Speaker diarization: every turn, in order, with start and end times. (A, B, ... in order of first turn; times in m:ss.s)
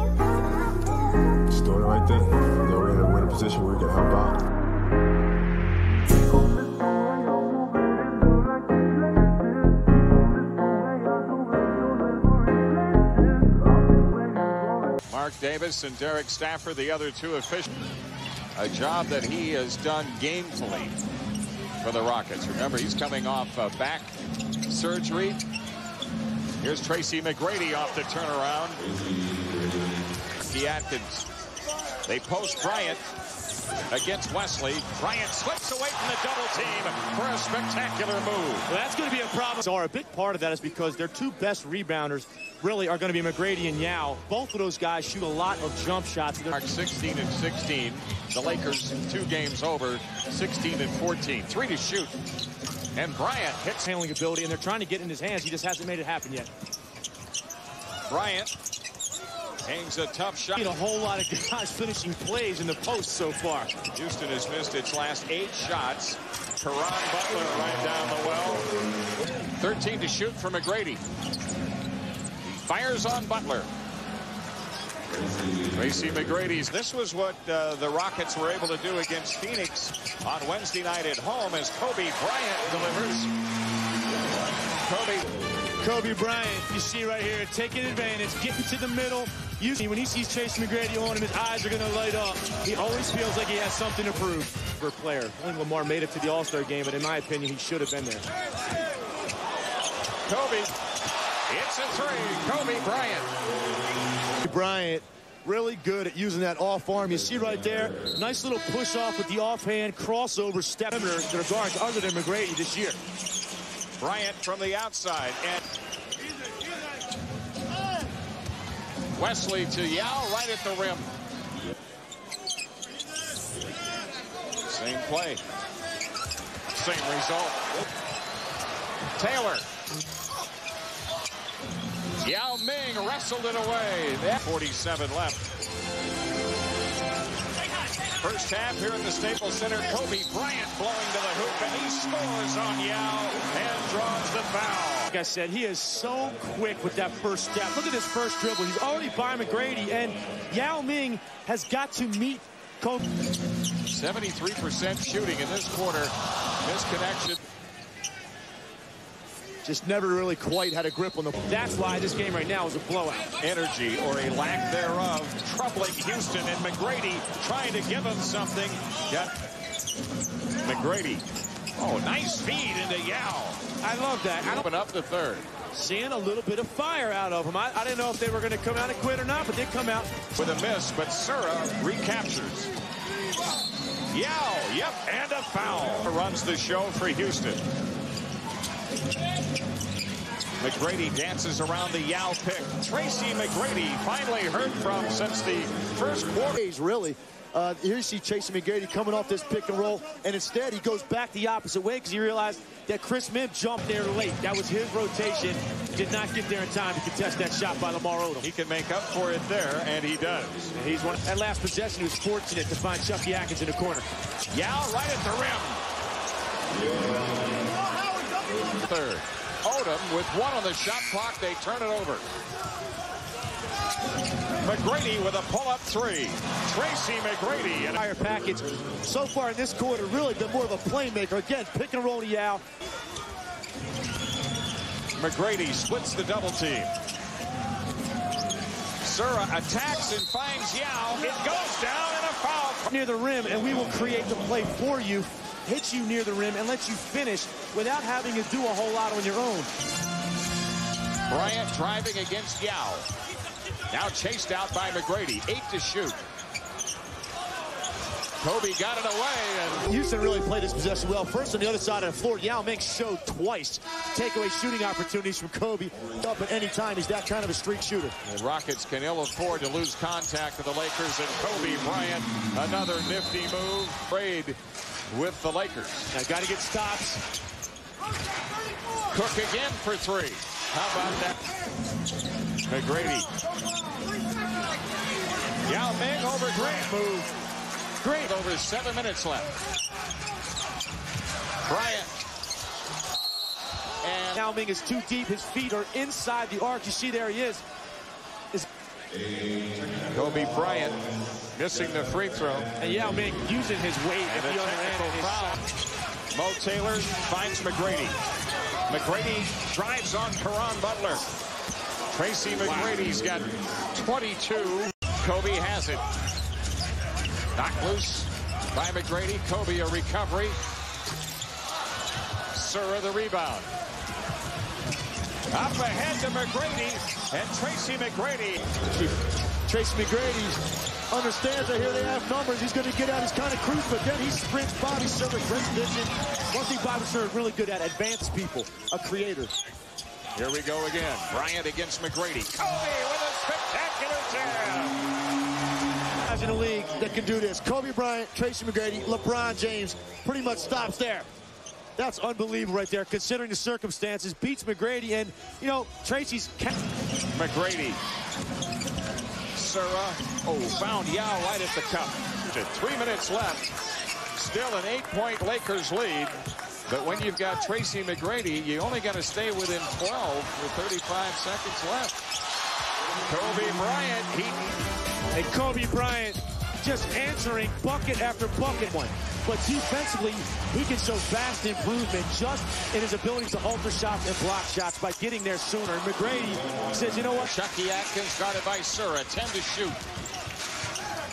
0:01.5-0:04.4 A
0:15.1-0:17.7 B
0:18.6-0:21.0 B
0:21.8-0:24.1 B
0:24.7-0:25.4 B
0:26.6-0:28.8 B
0:30.4-0:31.2 B
0:32.0-0:33.0 B
0:33.9-0:38.7 B
0:38.7-0:46.6 C
0:46.5-0:52.1 B
0:52.9-0:53.8 B
0:53.8-0:56.5 C
0:58.1-0:58.5 B
0:59.6-1:00.7 B
1:00.6-1:03.7 C
1:03.9-1:08.7 B
1:09.6-1:11.0 B
1:12.4-1:13.7 B
1:15.7-1:23.3 B
1:24.9-1:25.3 B
1:25.8-1:38.2 C
1:40.2-1:40.7 B
1:41.5-1:43.3 B
1:44.4-1:53.0 C
1:54.0-1:55.6 B
1:59.2-2:01.1 B
2:04.6-2:05.4 B
2:06.7-2:07.7 B
2:09.2-2:09.6 B
2:12.2-2:15.4 B
2:18.2-2:25.1 B
2:25.1-2:33.0 C
2:33.9-2:37.4 B
2:39.6-2:43.3 C
2:43.4-2:49.3 B
2:50.6-2:51.2 B
2:51.8-2:53.6 B
2:53.8-2:54.6 C
2:54.5-2:55.5 B
2:55.7-3:00.2 C
3:00.4-3:02.7 B
3:04.1-3:07.6 B
3:10.6-3:16.5 B
3:16.5-3:28.4 C
3:28.4-3:30.7 B
3:30.7-3:34.1 C
3:34.5-3:35.8 B
3:38.8-3:42.2 B
3:44.6-3:48.0 B
3:48.0-3:52.6 C
3:55.2-3:56.9 B
3:59.0-4:02.9 B
4:02.9-4:09.7 C
4:11.3-4:13.1 B
4:13.9-4:16.2 B
4:18.4-4:19.8 B
4:19.9-4:28.1 C
4:28.2-4:34.6 B
4:35.1-4:36.1 B
4:36.1-4:37.2 C
4:39.1-4:41.4 B
4:42.7-4:43.3 B
4:45.6-4:46.9 B
4:46.5-4:47.3 C
4:48.0-4:48.3 C
4:48.2-4:49.5 B
4:51.6-4:52.2 B
4:54.0-4:54.4 B
4:54.3-4:57.6 C
5:00.1-5:01.0 B
5:01.5-5:02.7 B
5:02.8-5:05.6 C
5:04.2-5:05.6 B
5:06.3-5:08.2 B
5:08.9-5:11.2 B
5:12.1-5:16.0 B
5:17.6-5:20.6 B
5:22.5-5:23.7 B
5:25.5-5:28.7 B
5:29.6-5:30.6 C
5:31.1-5:39.5 C
5:40.4-5:45.0 B
5:46.2-5:51.3 C
5:52.0-5:56.7 C
5:57.3-5:58.0 B
5:59.5-6:03.8 B
6:04.4-6:12.2 B
6:13.3-6:14.7 B
6:15.3-6:27.5 C
6:27.4-6:30.0 B